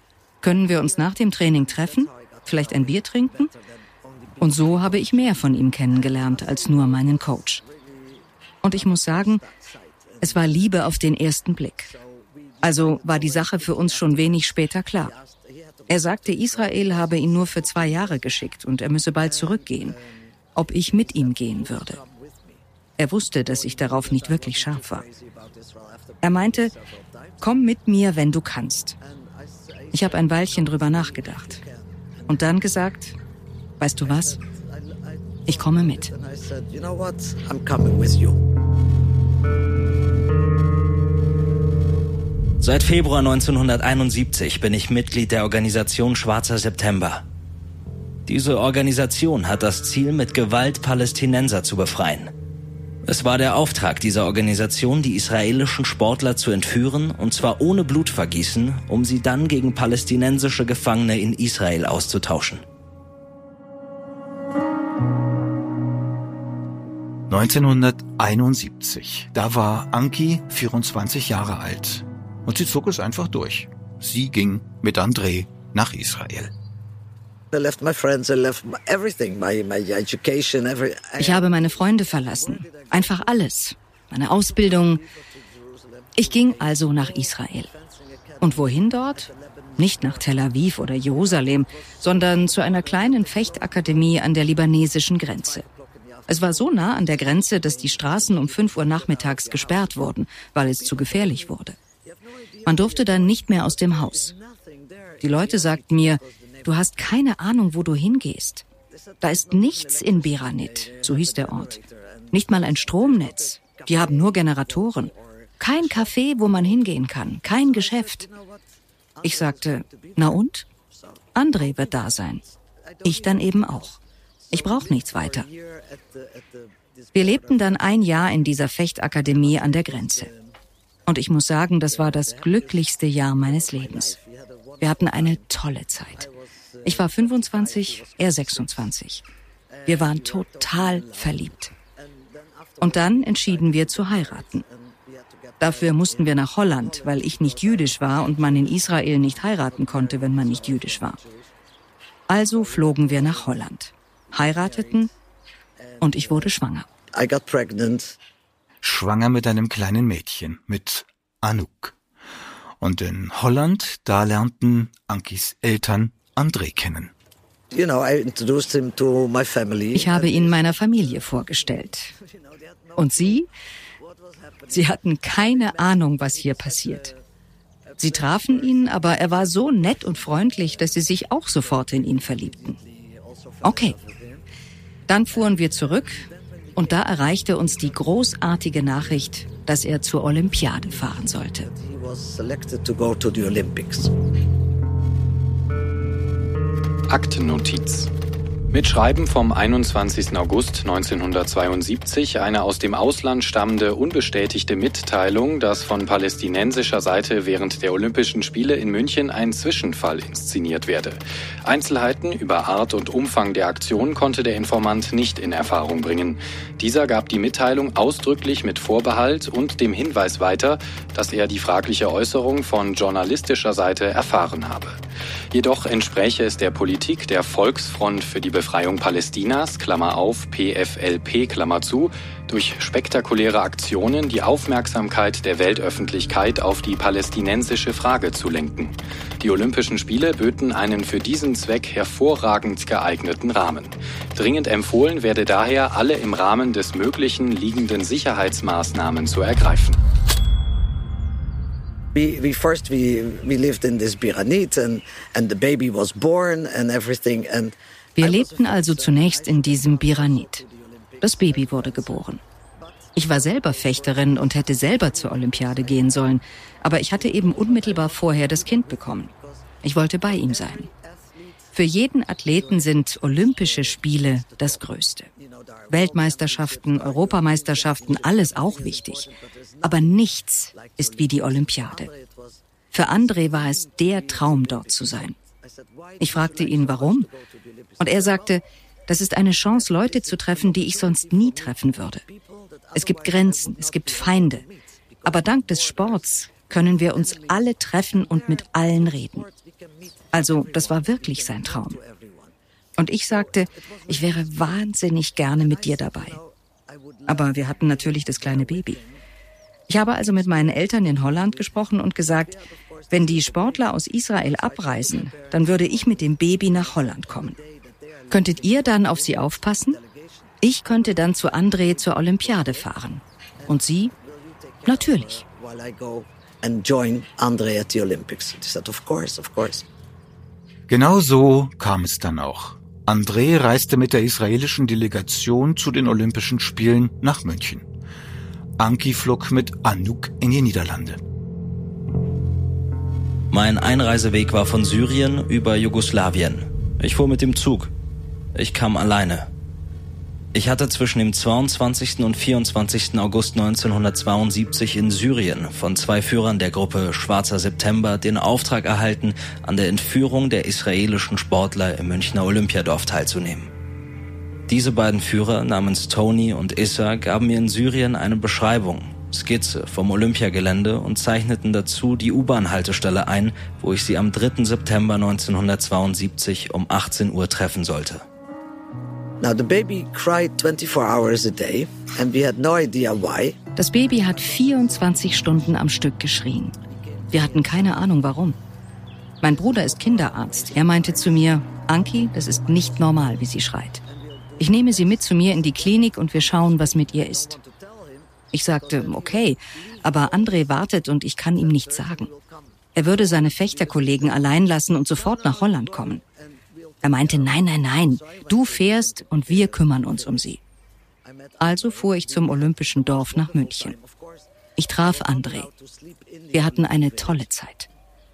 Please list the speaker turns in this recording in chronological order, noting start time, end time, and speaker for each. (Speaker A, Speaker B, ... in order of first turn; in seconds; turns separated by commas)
Speaker A: 0.4-3.5, Speaker B: 0.7-10.7, Speaker A: 4.4-7.6, Speaker A: 8.6-9.4, Speaker A: 10.2-11.9, Speaker B: 11.9-14.4, Speaker A: 12.6-15.1, Speaker B: 15.0-18.3, Speaker A: 15.9-20.0, Speaker B: 19.2-20.3, Speaker A: 20.6-22.0, Speaker B: 20.9-22.6, Speaker A: 23.0-25.0, Speaker B: 23.5-27.4, Speaker A: 26.2-26.7, Speaker A: 27.4-29.0, Speaker B: 29.0-32.5, Speaker A: 29.9-31.6, Speaker A: 32.3-33.1, Speaker A: 33.8-34.4, Speaker B: 34.0-38.4, Speaker A: 35.5-36.1, Speaker C: 42.6-47.2, Speaker C: 48.3-52.3, Speaker C: 53.1-62.6, Speaker D: 67.3-76.5, Speaker B: 77.5-83.4, Speaker A: 81.2-85.0, Speaker B: 84.5-90.5, Speaker A: 86.2-87.7, Speaker A: 88.4-95.7, Speaker B: 91.0-94.5, Speaker B: 95.4-100.0, Speaker A: 96.3-101.8, Speaker B: 100.8-106.9, Speaker A: 102.7-104.3, Speaker A: 105.2-108.6, Speaker B: 108.9-116.9, Speaker A: 109.2-111.8, Speaker A: 112.3-118.2, Speaker B: 117.6-118.6, Speaker B: 119.2-123.9, Speaker A: 119.2-120.7, Speaker A: 121.3-122.4, Speaker A: 123.0-124.0, Speaker B: 124.5-128.4, Speaker A: 124.5-125.5, Speaker A: 127.1-130.3, Speaker B: 129.3-130.6, Speaker A: 131.1-134.2, Speaker B: 131.9-135.5, Speaker A: 134.8-136.2, Speaker B: 136.1-138.9, Speaker A: 136.8-139.2, Speaker B: 139.7-148.8, Speaker A: 139.9-141.7, Speaker A: 142.8-144.6, Speaker A: 145.6-151.2, Speaker B: 149.4-151.5, Speaker A: 152.3-155.1, Speaker B: 152.5-153.7, Speaker B: 154.4-155.1, Speaker B: 155.8-156.5, Speaker A: 156.0-156.9, Speaker B: 157.1-158.2, Speaker D: 158.8-162.0, Speaker D: 162.8-167.1, Speaker B: 167.7-173.4, Speaker A: 169.9-172.1, Speaker A: 173.0-173.5, Speaker B: 174.0-177.2, Speaker A: 174.7-177.1, Speaker B: 177.9-181.0, Speaker A: 178.0-182.8, Speaker B: 181.6-184.4, Speaker A: 183.6-183.9, Speaker A: 185.1-186.2, Speaker B: 185.3-189.7, Speaker A: 186.8-191.7, Speaker B: 190.7-194.1, Speaker E: 197.1-198.1, Speaker E: 198.7-225.0, Speaker E: 225.5-250.0, Speaker B: 252.1-266.4, Speaker A: 258.2-260.6, Speaker A: 261.2-262.4, Speaker A: 263.1-269.3, Speaker B: 266.9-271.7, Speaker A: 269.8-270.9, Speaker A: 271.7-275.3, Speaker B: 272.5-288.6, Speaker A: 275.9-279.3, Speaker A: 279.8-282.1, Speaker A: 282.9-285.4, Speaker A: 286.2-287.3, Speaker A: 288.0-292.2, Speaker B: 289.7-302.5, Speaker A: 292.9-294.6, Speaker A: 295.2-299.5, Speaker A: 300.3-302.0, Speaker A: 303.0-306.4, Speaker B: 303.3-304.7, Speaker B: 305.5-309.2, Speaker A: 307.3-309.0, Speaker A: 309.9-317.6, Speaker B: 310.4-311.6, Speaker B: 312.7-321.2, Speaker A: 318.3-320.0, Speaker A: 320.6-324.1, Speaker B: 321.7-322.9, Speaker B: 323.6-329.9, Speaker A: 324.9-325.4, Speaker D: 330.9-337.9, Speaker D: 338.8-341.2, Speaker C: 343.5-347.9, Speaker C: 348.5-349.5, Speaker C: 350.5-363.7, Speaker C: 364.7-378.2, Speaker B: 379.4-383.6, Speaker A: 383.8-386.8, Speaker B: 384.1-385.9, Speaker B: 386.9-388.1, Speaker A: 387.3-388.6, Speaker A: 389.4-394.0, Speaker B: 389.5-391.6, Speaker B: 392.2-393.4, Speaker B: 394.1-400.8, Speaker A: 394.6-397.6, Speaker A: 398.5-402.3, Speaker B: 401.6-404.6, Speaker A: 402.9-406.2, Speaker B: 405.1-410.5, Speaker A: 407.0-410.6, Speaker B: 411.2-417.4, Speaker A: 411.6-413.9, Speaker A: 414.8-415.7, Speaker A: 416.5-417.9